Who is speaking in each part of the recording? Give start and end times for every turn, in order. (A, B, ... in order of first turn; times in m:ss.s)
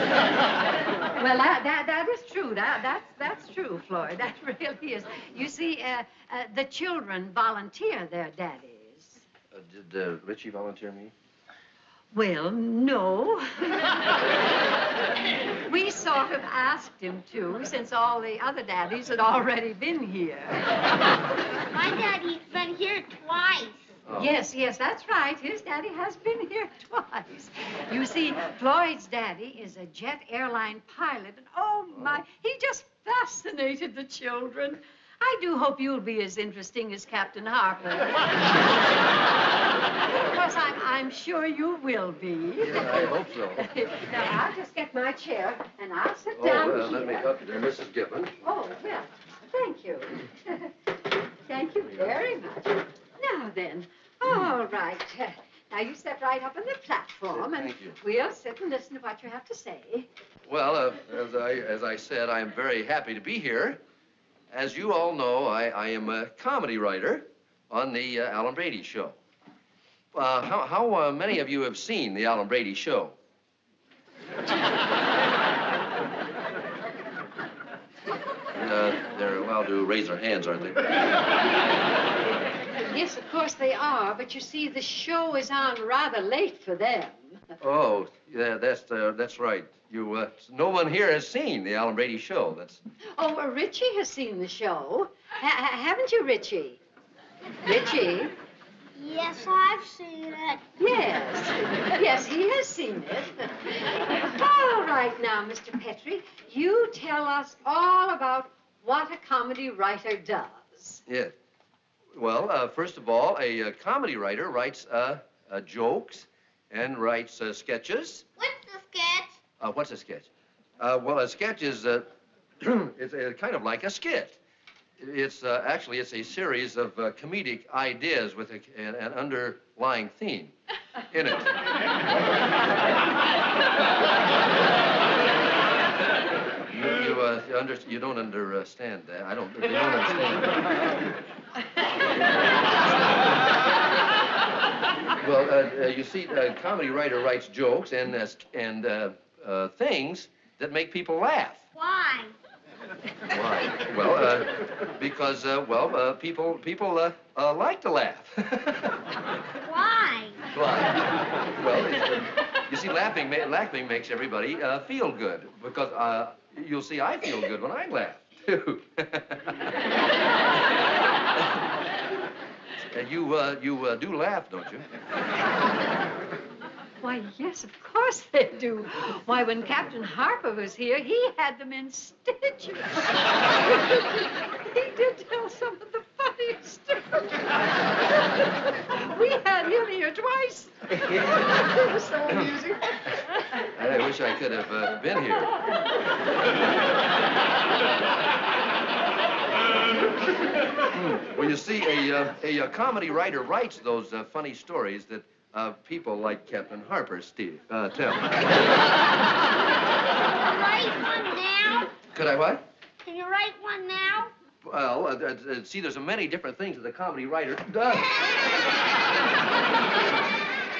0:01.2-0:09.2 A
0:09.5-0:11.1 B
0:12.1-0:14.0 A
0:15.6-0:20.7 A
0:21.7-0:23.9 C
0:24.0-0:24.3 B
0:24.1-0:38.6 A
0:40.1-0:47.3 A
0:42.6-0:43.7 B
0:46.4-0:48.3 B
0:48.4-0:50.7 A
0:51.4-1:00.1 A
0:57.3-0:58.0 B
1:00.4-1:03.8 B
1:04.5-1:09.2 B
1:10.1-1:13.2 B
1:18.5-1:20.9 B
1:22.8-1:27.6 A
1:27.6-1:32.8 B
1:33.2-1:36.8 A
1:37.6-1:38.4 A
1:38.9-1:40.6 C
1:40.8-1:51.0 A
1:51.1-1:51.3 B
1:52.1-1:58.2 B
1:58.4-1:59.4 C
1:59.6-2:02.1 B
2:02.6-2:04.4 B
2:05.0-2:10.5 B
2:11.1-2:11.6 B
2:16.7-2:20.9 B
2:22.0-2:23.4 B
2:25.2-2:31.7 B
2:31.8-2:32.3 C
2:33.3-2:39.2 B
2:39.6-2:40.4 C
2:40.5-2:49.6 B
2:52.8-2:54.8 B
2:57.0-3:07.4 A
3:08.4-3:13.1 A
3:13.6-3:15.5 B
3:20.9-3:28.6 B
3:30.3-3:31.9 C
3:32.1-3:32.6 B
3:33.0-3:34.3 C
3:34.6-3:38.2 B